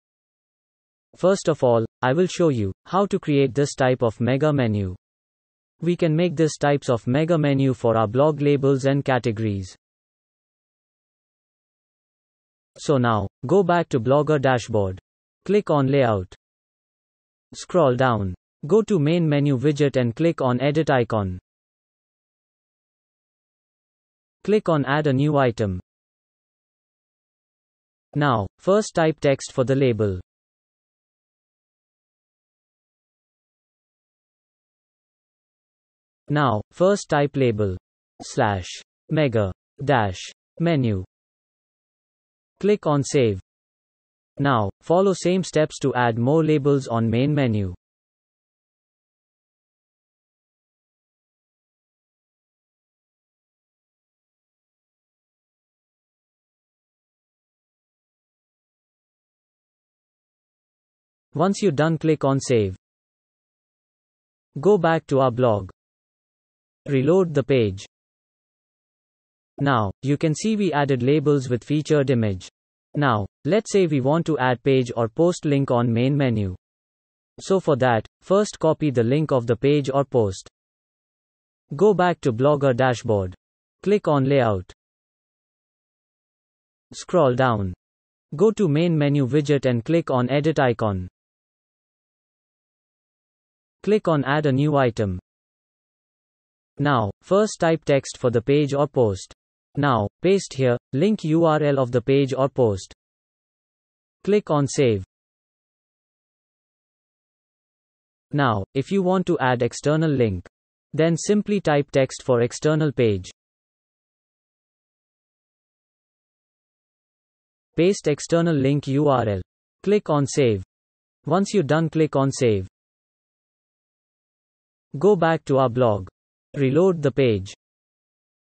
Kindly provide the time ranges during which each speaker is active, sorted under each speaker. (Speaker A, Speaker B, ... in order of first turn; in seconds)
Speaker A: 1.1-5.0, 5.8-9.8, 12.8-16.4, 17.5-21.4, 24.4-25.8, 28.1-30.2, 36.3-41.1, 42.6-43.4, 44.4-47.8, 61.3-62.8, 64.6-65.7, 66.9-67.9, 69.6-76.6, 77.4-80.5, 81.7-84.7, 86.9-87.8, 88.3-91.1, 93.8-95.2, 96.8-103.0, 104.2-105.1, 108.3-113.3, 117.8-120.7, 121.2-122.7, 125.0-127.6